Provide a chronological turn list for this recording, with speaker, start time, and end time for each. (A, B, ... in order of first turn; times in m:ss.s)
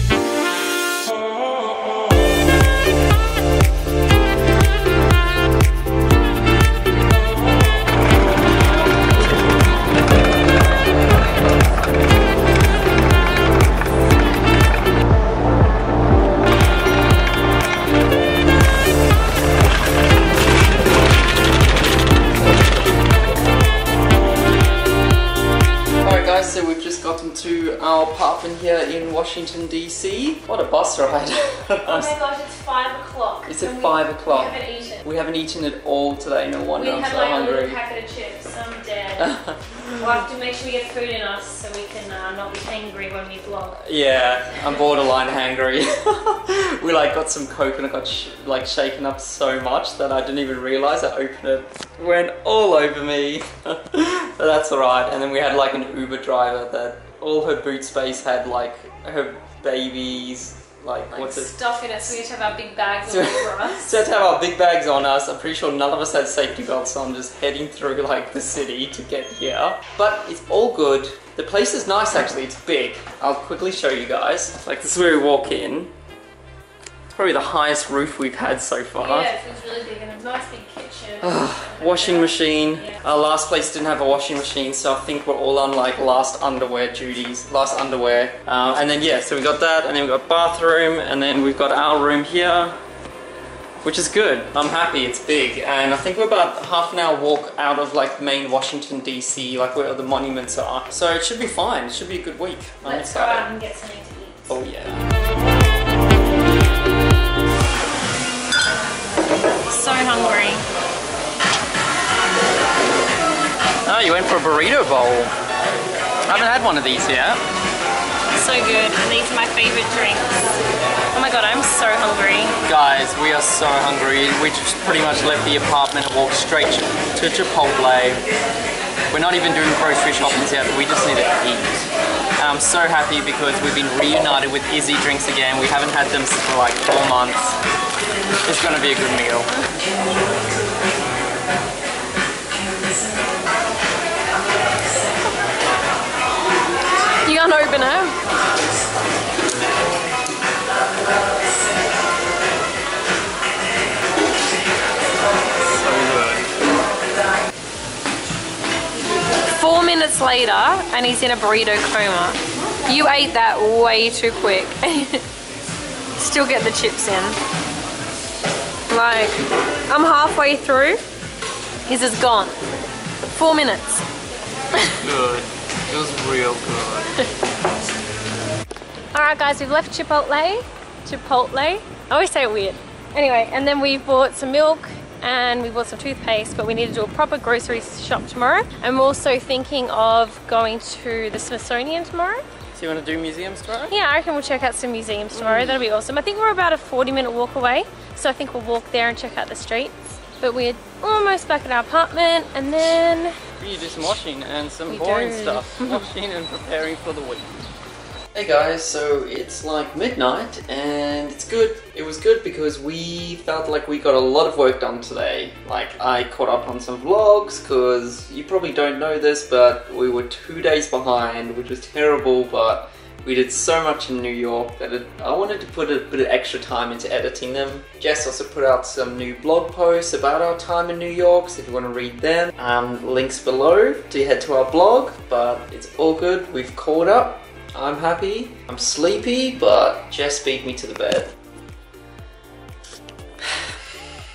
0:26.0-0:32.1 A
0:31.8-0:35.0 B
0:33.4-0:37.8 A
0:36.7-0:39.3 B
0:39.2-0:39.6 A
0:39.9-0:43.8 B
0:43.8-1:02.2 A
1:01.1-1:04.0 B
1:03.0-1:15.9 A
1:17.1-1:19.3 A
1:19.0-1:23.0 B
1:21.2-1:32.8 A
1:33.8-1:43.5 A
1:42.8-1:44.6 B
1:44.5-1:45.0 A
1:49.7-1:50.6 B
1:53.8-1:55.3 A
1:56.2-1:57.4 A
1:58.4-2:00.4 B
2:01.1-2:02.5 B
2:02.6-2:08.2 A
2:09.1-2:11.8 A
2:12.4-2:17.6 A
2:18.4-2:19.5 A
2:27.2-2:28.2 B
2:35.7-2:36.5 A
2:39.5-2:45.2 B
2:46.2-2:47.4 B
2:48.9-2:51.0 B
2:51.8-2:52.6 B
2:53.3-2:54.0 B
2:54.9-2:57.2 A
2:59.1-3:12.4 B
3:12.7-3:13.9 A
3:13.9-3:23.3 B
3:15.3-3:15.8 A
3:23.6-3:27.7 A
3:24.9-3:26.1 B
3:28.3-4:01.3 A
4:03.4-4:03.7 A